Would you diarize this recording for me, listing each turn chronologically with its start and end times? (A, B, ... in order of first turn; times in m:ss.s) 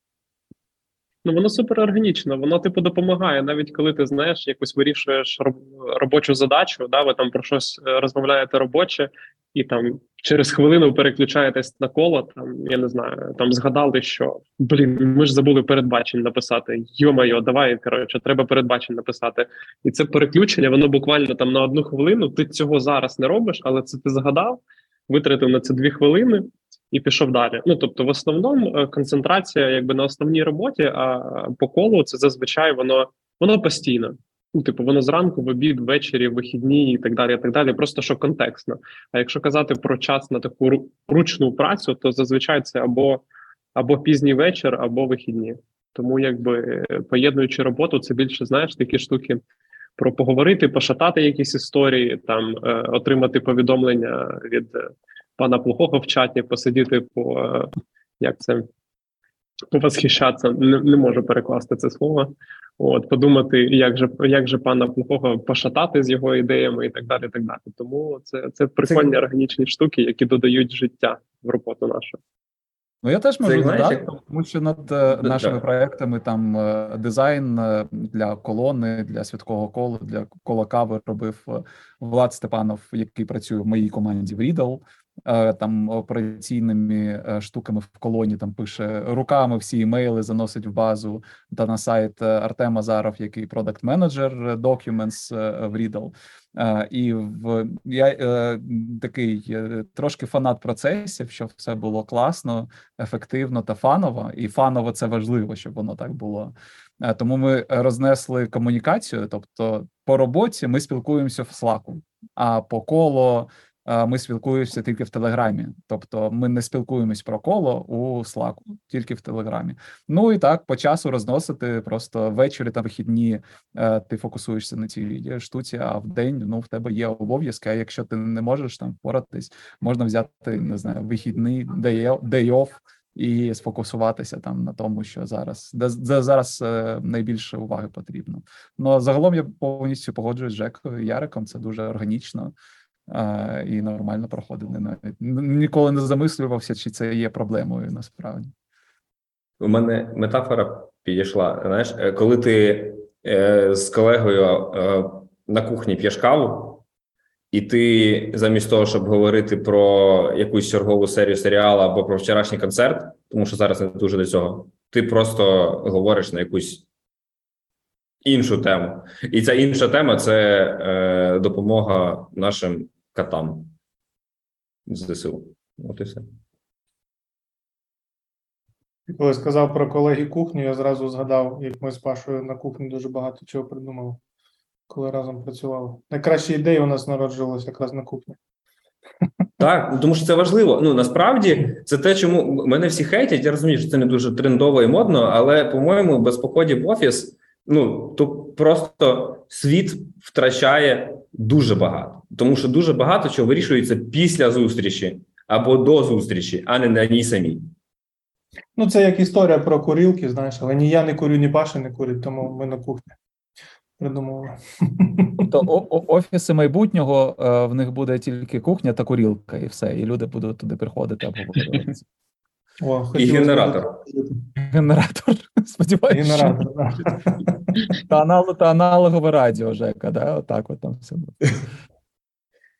0:01.2-0:43.2 A
0:43.8-0:49.4 A
0:50.0-0:58.7 A
0:59.7-1:12.2 A
1:08.8-1:09.1 B
1:13.0-2:22.5 C
1:13.4-1:14.1 B
1:15.2-1:15.6 B
2:23.1-2:28.5 C
2:29.6-2:36.8 B
2:37.5-2:46.8 B
2:48.2-2:53.7 B
2:54.9-2:56.3 B
2:59.2-3:04.2 D
3:04.9-3:08.4 D
3:09.6-3:27.7 B
3:28.8-3:33.1 D
3:34.0-3:35.4 D
3:35.4-3:42.0 C
3:42.8-3:44.4 D
3:43.2-3:44.0 B
3:44.6-3:46.6 C
3:46.1-3:47.9 D
3:47.9-3:51.5 C